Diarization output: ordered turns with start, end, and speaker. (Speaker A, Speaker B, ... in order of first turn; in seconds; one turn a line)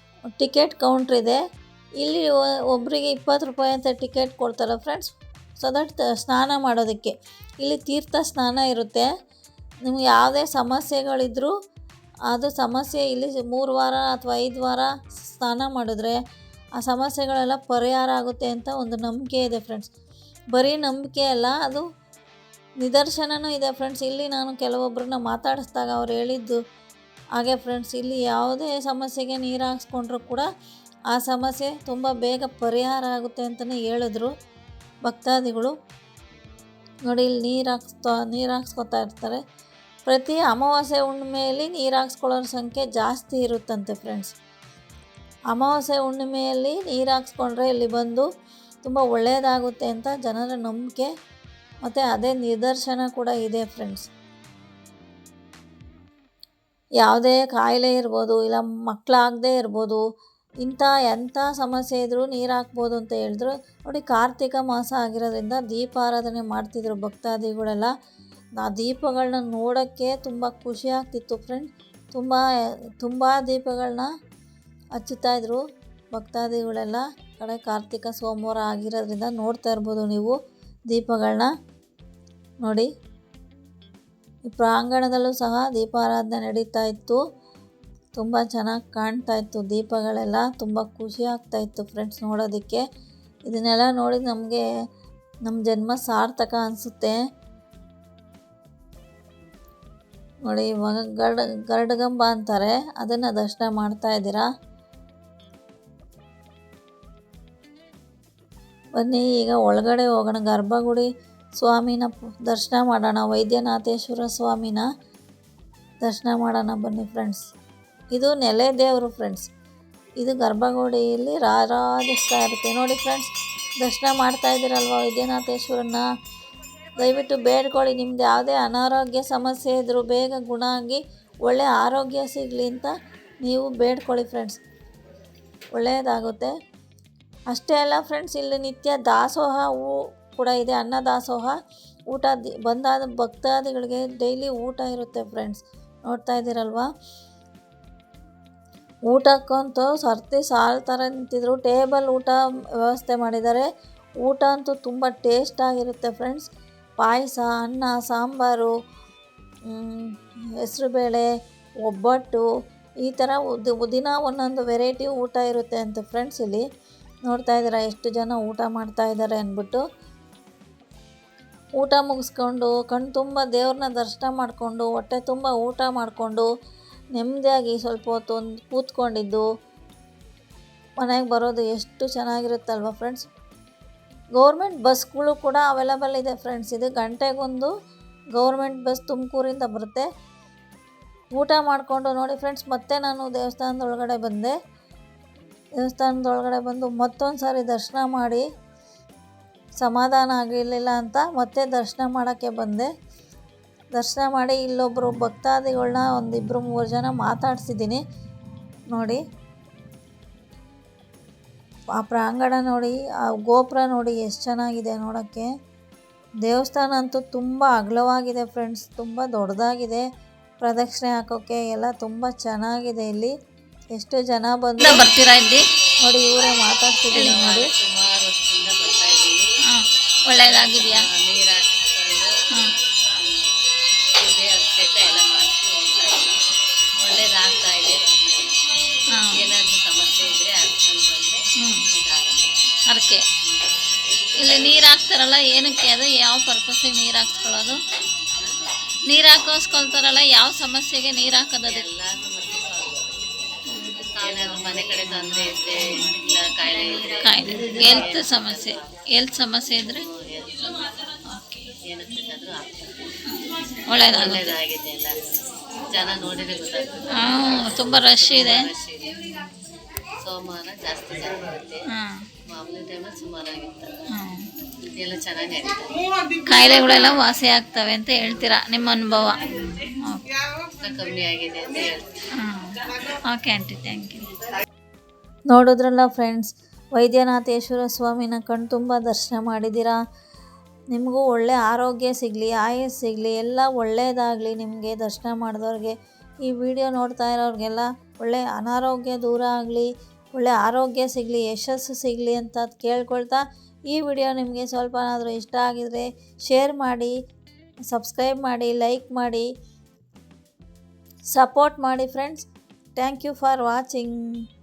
Speaker A: 0.4-1.4
Speaker A: 2.0-9.1
Speaker A: 9.8-11.5
Speaker A: 12.3-16.2
Speaker A: 16.8-19.9
Speaker A: 20.5-21.9
Speaker A: 22.8-26.6
Speaker A: 27.4-30.4
Speaker A: 31.1-34.3
Speaker A: 35.1-35.7
Speaker A: 37.1-39.4
Speaker A: 40.1-44.3
Speaker A: 45.5-48.3
Speaker A: 48.8-51.1
Speaker A: 51.9-54.1
Speaker A: 57.0-60.0
Speaker A: 60.6-67.9
Speaker A: 68.6-72.4
Speaker A: 73.0-74.1
Speaker A: 75.0-75.6
Speaker A: 76.1-80.4
Speaker A: 80.9-81.5
Speaker A: 82.6-82.9
Speaker A: 84.5-87.2
Speaker A: 88.2-92.8
Speaker A: 93.5-94.6
Speaker A: 95.5-97.2
Speaker A: 100.5-104.5
Speaker A: 109.0-114.8
Speaker A: 116.0-117.4
Speaker A: 118.1-119.5
Speaker A: 120.2-123.3
Speaker A: 123.8-126.0
Speaker A: 127.0-132.9
Speaker A: 133.4-134.6
Speaker A: 135.8-136.5
Speaker A: 137.5-141.6
Speaker A: 142.1-146.9
Speaker A: 149.1-153.7
Speaker A: 154.2-156.5
Speaker A: 157.0-158.7
Speaker A: 159.7-161.3
Speaker A: 161.9-162.4
Speaker A: 163.0-166.6
Speaker A: 167.3-169.8
Speaker A: 171.8-176.5
Speaker A: 177.2-179.5
Speaker A: 181.0-183.3
Speaker A: 184.4-187.7
Speaker A: 188.4-190.1
Speaker A: 191.3-194.6
Speaker A: 195.8-198.4
Speaker A: 199.8-202.9
Speaker A: 204.0-208.0
Speaker A: 208.9-209.2
Speaker A: 212.0-215.5
Speaker A: 216.4-220.1
Speaker A: 220.6-223.3
Speaker A: 223.9-225.1
Speaker B: 224.8-225.6
Speaker A: 226.1-227.7
Speaker C: 227.1-229.4
Speaker B: 230.3-231.0
Speaker C: 230.3-232.3
Speaker C: 233.2-233.6
Speaker C: 234.2-236.4
Speaker C: 237.0-238.6
Speaker C: 239.3-242.7
Speaker B: 242.9-243.2
Speaker B: 244.4-247.8
Speaker A: 246.6-247.0
Speaker B: 249.1-251.7
Speaker A: 250.6-251.0
Speaker C: 251.7-253.3
Speaker B: 253.7-254.0
Speaker C: 254.2-259.0
Speaker B: 257.2-260.0
Speaker C: 259.8-260.8
Speaker B: 261.3-261.7
Speaker C: 261.9-263.1
Speaker B: 263.9-264.6
Speaker C: 264.0-269.2
Speaker B: 267.2-268.6
Speaker C: 270.2-271.8
Speaker C: 272.5-274.0
Speaker C: 274.9-276.0
Speaker B: 276.5-277.4
Speaker A: 276.9-278.1
Speaker B: 278.0-280.0
Speaker C: 280.8-282.1
Speaker B: 282.4-284.3
Speaker A: 285.5-290.0
Speaker A: 290.9-307.1
Speaker A: 307.9-309.5
Speaker A: 311.3-314.5